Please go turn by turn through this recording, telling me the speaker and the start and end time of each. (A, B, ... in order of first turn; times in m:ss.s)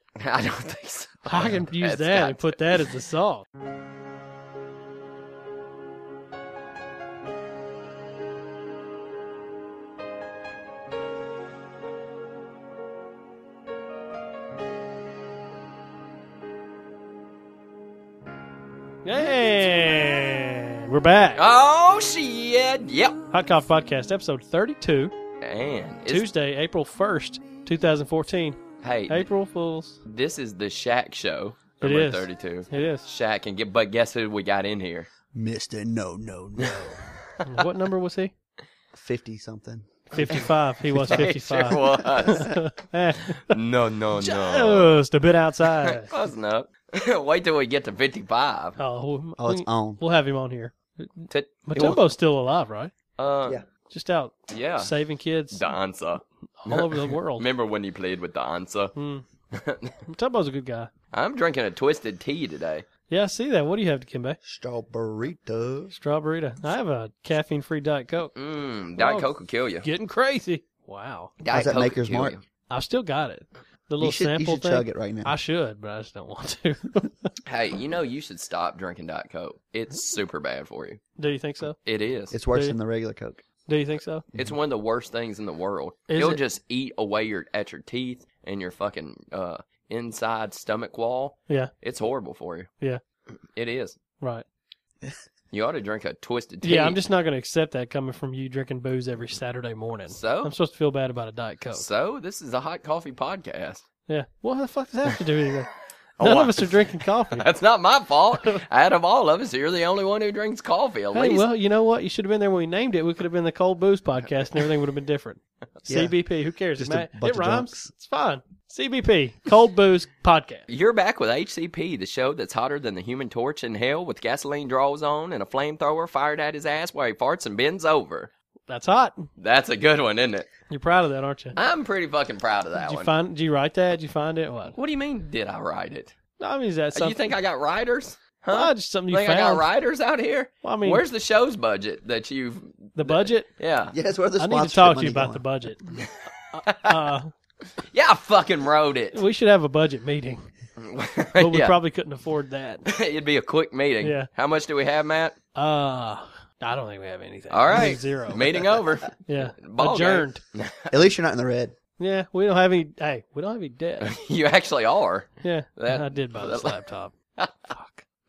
0:00.2-0:02.6 A
0:01.2-0:03.5 B
0:19.0-0:21.4 B
0:21.4-0:23.2 A
0:23.3-0:25.2 B
0:25.4-0:26.3 A
0:26.1-0:30.0 B
0:28.8-0:29.3 A
0:30.0-0:35.1 A
0:31.8-0:33.0 B
0:35.3-0:36.9 C
0:36.6-0:37.5 A
0:37.4-0:38.3 B
0:38.9-0:41.8 C
0:40.1-0:40.4 A
0:40.1-0:43.6 B
0:41.0-0:42.5 A
0:43.2-0:45.0 A
0:44.2-0:46.1 B
0:45.8-0:48.8 A
0:48.8-0:52.9 B
0:49.4-0:50.0 C
0:51.3-0:52.1 A
0:53.2-0:53.6 A
0:53.9-0:55.6 B
0:54.5-0:54.9 A
0:55.5-0:58.9 A
0:56.6-0:57.4 B
0:59.0-0:59.2 B
0:59.5-1:00.0 A
1:00.1-1:00.9 B
1:01.1-1:02.8 A
1:03.1-1:04.4 B
1:04.4-1:05.9 C
1:05.9-1:08.3 B
1:08.4-1:09.9 A
1:09.0-1:09.3 B
1:09.8-1:11.3 B
1:11.4-1:12.4 A
1:11.5-1:12.4 C
1:12.7-1:17.3 B
1:14.0-1:15.3 C
1:17.4-1:21.0 A
1:21.2-1:21.8 B
1:21.8-1:22.4 A
1:22.3-1:23.4 C
1:23.6-1:24.3 B
1:24.3-1:32.7 A
1:26.1-1:26.4 B
1:33.5-1:34.0 A
1:35.5-1:37.0 A
1:36.6-1:41.8 B
1:40.1-1:40.5 A
1:41.7-1:43.8 A
1:44.1-1:47.4 B
1:46.2-1:46.7 A
1:47.3-1:51.4 A
1:51.1-2:00.7 B
1:55.9-1:56.1 C
1:56.8-1:57.9 C
2:00.7-2:08.3 A
2:08.7-2:09.3 B
2:09.4-2:10.5 A
2:10.7-2:11.6 B
2:11.5-2:13.1 A
2:12.8-2:14.8 B
2:14.7-2:16.1 A
2:16.4-2:17.2 B
2:16.9-2:23.9 A
2:18.5-2:19.7 B
2:20.6-2:21.0 B
2:23.0-2:23.5 B
2:23.9-2:25.4 C
2:24.4-2:27.3 B
2:25.9-2:27.1 A
2:27.8-2:29.2 A
2:29.1-2:30.5 B
2:30.8-2:31.8 A
2:31.4-2:32.9 B
2:32.8-2:35.4 A
2:34.0-2:34.3 B
2:35.5-2:38.7 B
2:37.5-2:41.0 A
2:39.2-2:40.4 B
2:40.9-2:41.8 C
2:42.0-2:44.1 B
2:44.0-2:46.8 A
2:45.4-2:47.1 B
2:47.4-2:47.7 A
2:47.7-2:48.0 B